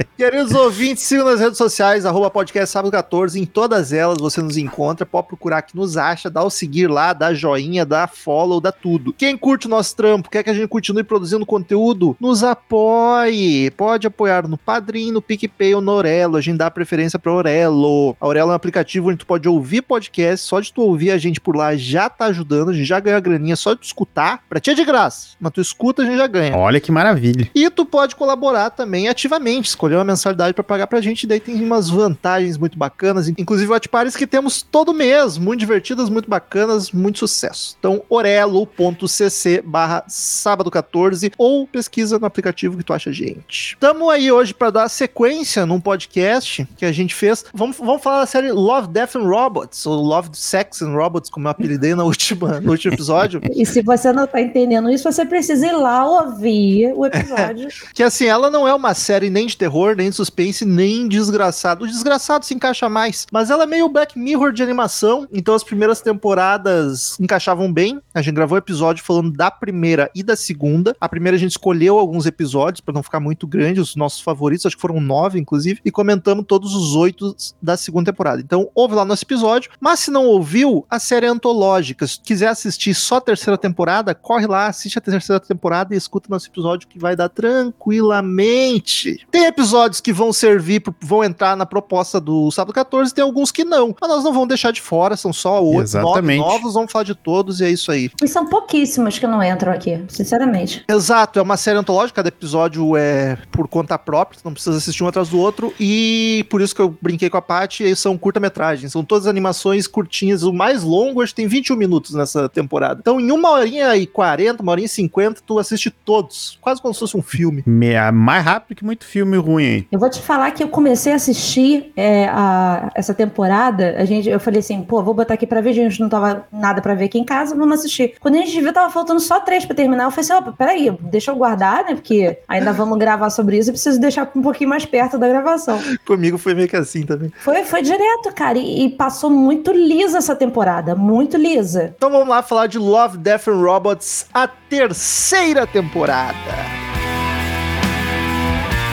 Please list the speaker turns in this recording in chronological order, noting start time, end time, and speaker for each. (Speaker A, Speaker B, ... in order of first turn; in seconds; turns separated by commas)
Speaker A: 0.2-26.6, Speaker B: 26.5-27.5, Speaker A: 27.5-53.5, Speaker C: 53.5-57.8, Speaker A: 57.1-98.1, Speaker B: 95.7-96.6, Speaker C: 98.2-100.8, Speaker A: 100.9-117.7, Speaker B: 117.7-119.9, Speaker C: 119.9-135.9, Speaker A: 135.9-137.3, Speaker C: 137.4-142.0, Speaker A: 142.0-146.8